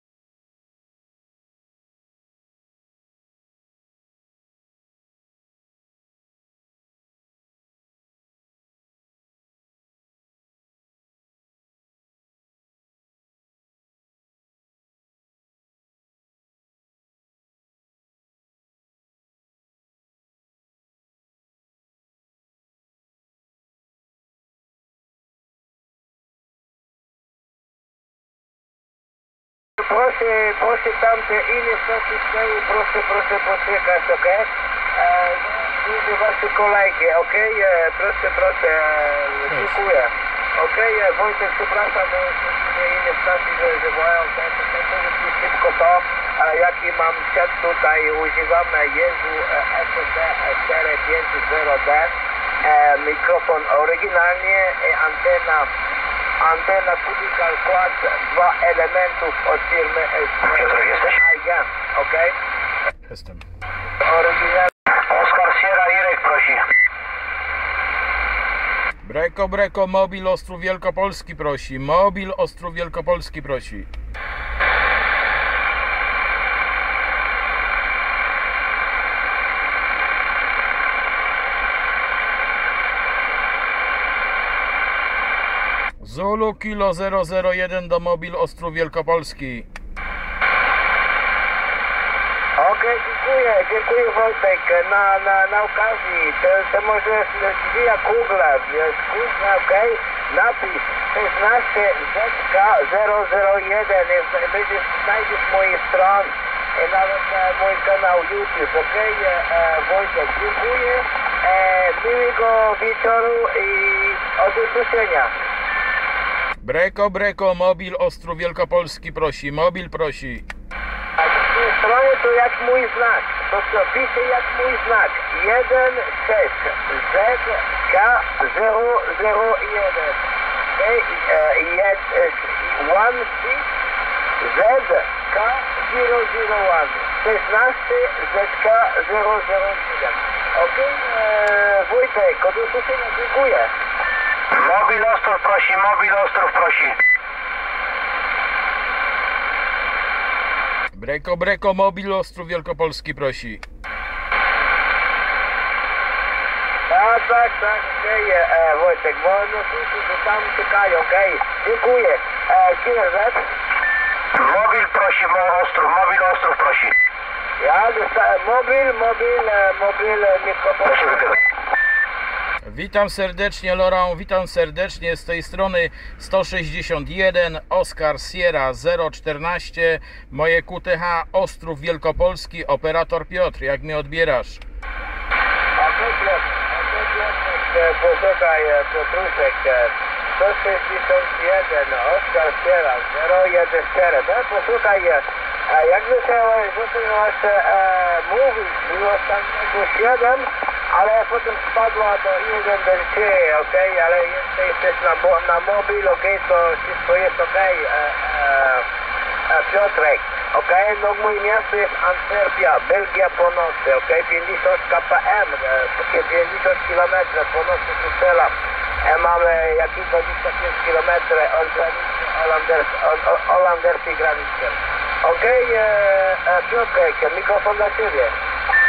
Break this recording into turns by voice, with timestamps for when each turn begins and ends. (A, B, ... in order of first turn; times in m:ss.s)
0:29.8-0:55.7 A
0:56.4-1:02.3 A
1:00.6-1:01.2 B
1:03.1-1:03.4 C
1:04.0-1:04.7 A
1:04.9-1:06.6 B
1:09.0-1:13.9 C
1:26.0-1:29.7 C
1:32.6-1:55.3 A
1:56.6-2:00.4 C
2:01.2-2:10.2 A
2:10.7-2:13.7 A
2:14.4-2:23.7 A
2:24.5-2:27.0 B
2:30.9-2:33.6 C
2:36.9-2:43.5 A
2:44.3-2:47.0 B
2:47.6-2:51.4 A
2:52.6-3:04.6 C
3:05.8-3:28.9 A
3:29.5-3:48.3 A